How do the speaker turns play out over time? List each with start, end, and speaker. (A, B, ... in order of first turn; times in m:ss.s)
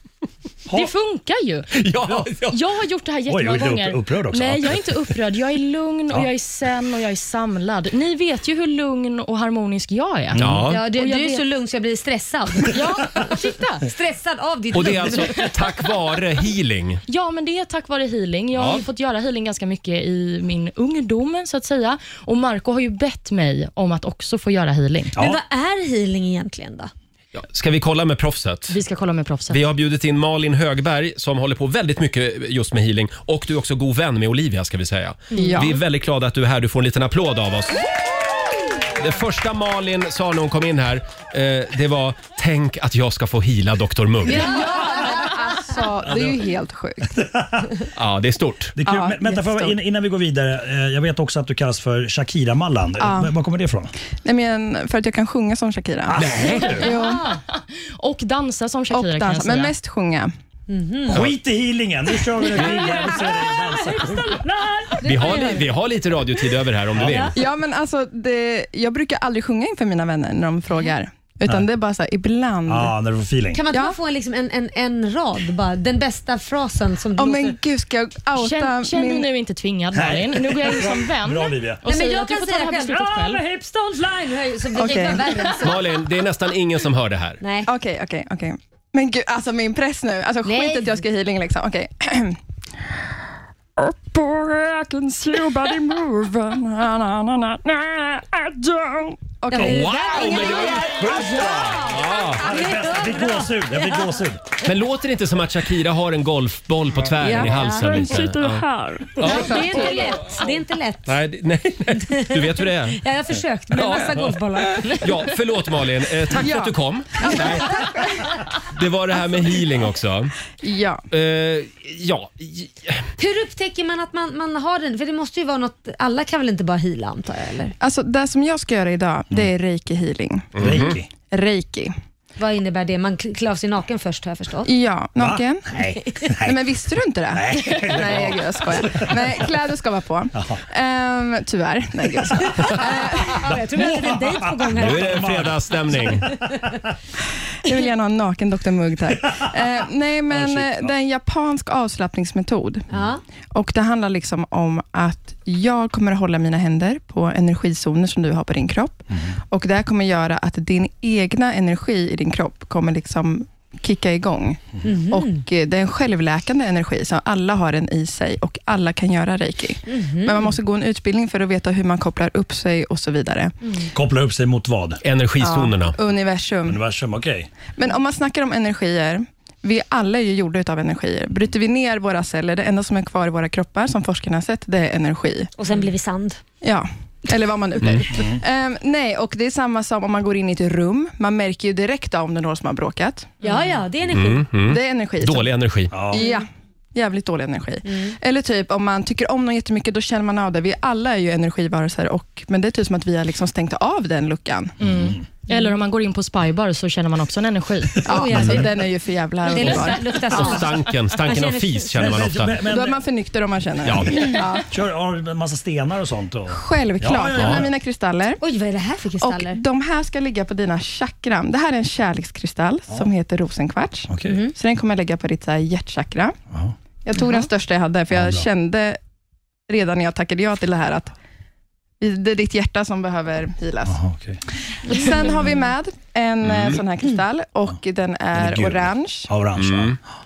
0:00.7-0:01.7 A
0:01.8-0:02.6 B
0:02.5-0:11.4 A
0:03.3-0:04.8 C
0:10.3-0:10.6 C
0:10.4-0:10.8 B
0:10.7-0:15.5 D
0:12.7-0:13.8 A
0:14.7-0:17.0 B
0:17.1-0:25.1 A
0:18.6-0:18.8 B
0:25.2-0:26.9 D
0:27.3-0:28.8 B
0:28.7-0:29.6 A
0:29.5-0:37.9 B
0:35.3-0:35.6 A
0:35.3-0:35.8 E
0:38.9-0:44.6 B
0:44.3-0:47.2 E
0:46.0-0:46.4 C
0:47.1-0:47.7 C
0:47.9-0:48.8 B
0:48.8-0:53.9 C
0:48.8-0:49.8 E
0:53.0-0:53.3 E
0:54.2-0:57.2 E
0:56.1-0:56.9 C
0:56.1-0:56.8 B
0:56.8-0:59.7 A
0:58.9-1:00.3 E
1:00.7-1:01.2 D
1:01.1-1:04.4 C
1:05.0-1:05.7 D
1:05.0-1:07.3 B
1:06.9-1:07.2 C
1:07.3-1:12.9 E
1:12.7-1:13.6 C
1:13.5-1:17.6 D
1:13.7-1:14.0 E
1:17.2-1:19.3 E
1:18.4-1:23.4 A
1:19.9-1:21.8 C
1:21.8-1:25.9 D
1:24.7-1:25.5 E
1:25.6-1:27.4 B
1:27.4-1:27.7 D
1:27.6-1:32.4 E
1:30.4-1:31.0 D
1:33.8-1:41.0 E
1:39.5-1:44.1 D
1:39.5-1:42.4 B
1:40.4-1:44.4 C
1:44.6-1:50.0 B
1:47.2-1:49.1 E
1:47.3-1:48.2 D
1:49.2-1:51.1 D
1:51.1-1:53.0 B
1:52.0-1:55.1 D
1:53.7-1:57.9 B
1:56.3-1:58.0 E
1:58.6-2:00.3 B
2:00.6-2:01.0 E
2:01.1-2:03.1 B
2:03.2-2:07.7 D
2:07.8-2:10.5 E
2:10.5-2:11.0 B
2:10.6-2:11.1 C
2:11.2-2:11.9 E
2:12.4-2:14.7 D
2:14.6-2:15.7 E
2:15.2-2:16.6 C
2:16.4-2:23.4 E
2:17.3-2:19.4 C
2:20.4-2:20.6 C
2:22.6-2:25.4 D
2:23.4-2:26.7 C
2:24.7-2:26.3 B
2:27.6-2:32.8 E
2:30.3-2:30.9 C
2:32.9-2:33.2 D
2:33.5-2:53.5 E
2:44.8-2:45.4 D
2:49.9-2:50.5 D
2:53.9-2:55.0 C
2:55.0-2:56.0 B
2:55.4-2:56.8 E
2:56.6-2:57.5 C
2:57.8-3:05.5 E
3:05.6-3:06.4 D
3:06.6-3:13.5 E
3:07.8-3:08.0 B
3:08.1-3:08.4 C
3:13.4-3:14.4 D
3:14.1-3:16.1 B
3:14.6-3:15.5 E
3:15.9-3:16.2 C
3:16.0-3:24.7 E
3:17.9-3:18.1 D
3:24.8-3:25.2 C
3:24.8-3:28.0 A
3:28.0-3:30.5 E
3:28.1-3:28.8 D
3:28.4-3:28.6 B
3:29.5-3:32.2 D
3:30.3-3:32.6 B
3:31.9-3:33.0 C
3:32.6-3:34.7 E
3:33.8-3:34.3 B
3:33.8-3:34.1 C
3:34.7-3:37.7 C
3:36.5-3:38.4 E
3:37.4-3:37.6 B
3:38.4-3:39.6 D
3:39.2-3:46.4 E
3:44.1-3:44.4 C
3:44.3-3:44.5 D
3:47.0-3:49.0 E
3:48.1-3:48.4 C
3:49.7-3:51.1 E
3:52.0-3:54.0 E
3:53.8-3:54.4 C
3:54.9-3:59.3 E
3:56.4-3:56.8 B
3:58.3-4:00.0 C
3:59.6-4:00.0 B